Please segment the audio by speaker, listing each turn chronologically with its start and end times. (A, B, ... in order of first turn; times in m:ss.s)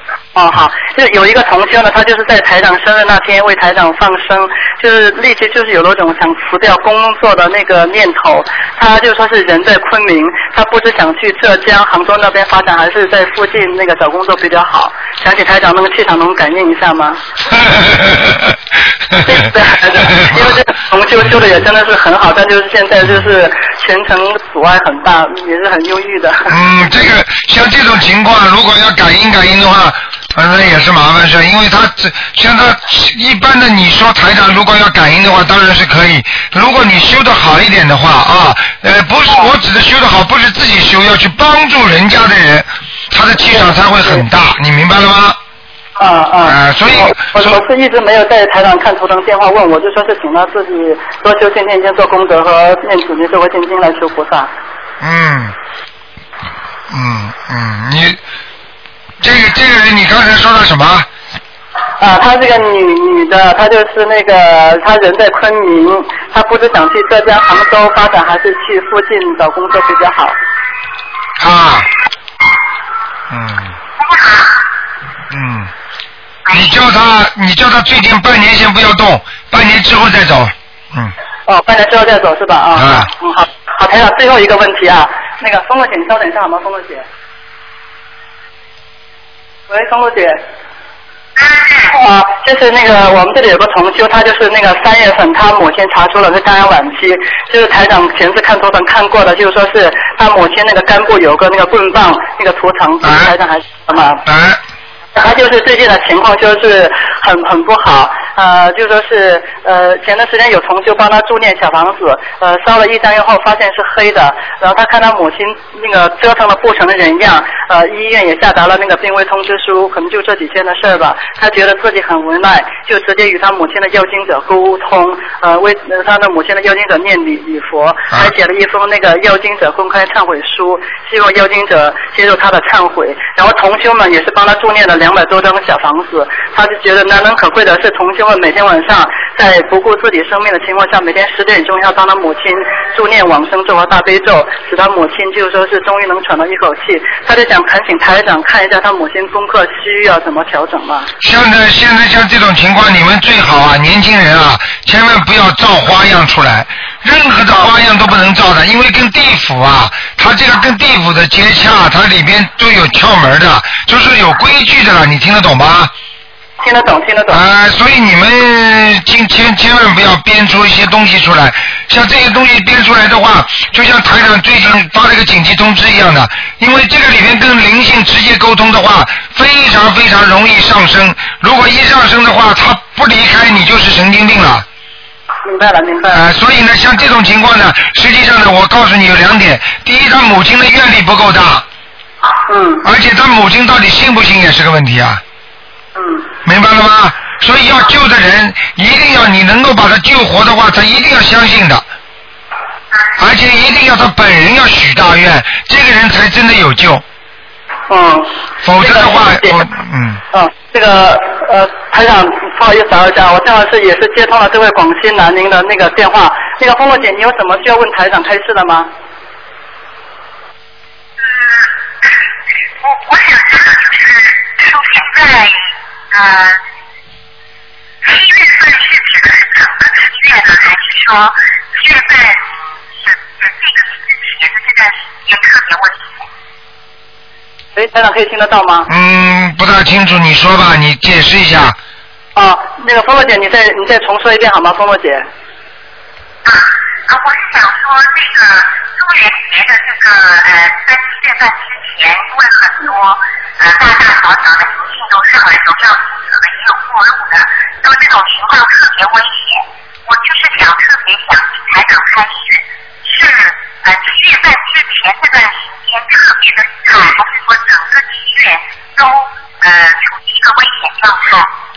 0:00.3-0:17.2 A
0:17.6-0:18.4 B
0:19.2-0:26.5 A
0:20.2-0:20.5 B
0:26.5-0:45.4 B
0:46.0-0:54.5 A
0:46.4-0:47.6 B
0:55.0-0:55.5 B
0:56.9-0:58.2 B
0:59.2-1:01.1 B
1:02.0-1:10.4 A
1:11.4-1:11.9 B
1:13.3-1:13.7 B
1:14.0-1:14.6 C
1:15.3-1:15.7 B
1:16.5-1:21.1 B
1:21.5-1:27.0 A
1:22.8-1:23.1 B
1:29.7-1:30.4 A
1:31.4-1:31.9 C
1:31.9-1:44.2 A
1:43.0-1:43.3 B
1:44.2-1:44.6 B
1:45.2-2:31.1 A
2:31.2-2:45.9 B
2:46.6-2:47.4 A
2:47.3-3:04.6 B
3:05.4-3:06.2 A
3:06.1-3:11.6 B
3:12.5-3:12.8 A
3:12.8-3:15.2 B
3:16.0-3:16.3 A
3:16.4-3:21.8 B
3:23.2-3:27.0 B
3:27.9-3:29.6 A
3:28.6-3:30.2 B
3:30.3-3:38.9 A
3:41.2-3:42.2 C
3:42.8-3:46.6 C
3:48.0-3:52.4 C
3:53.0-3:56.2 C
3:57.8-3:58.9 A
3:58.9-4:01.8 B
4:02.4-4:05.2 A
4:06.4-4:31.5 C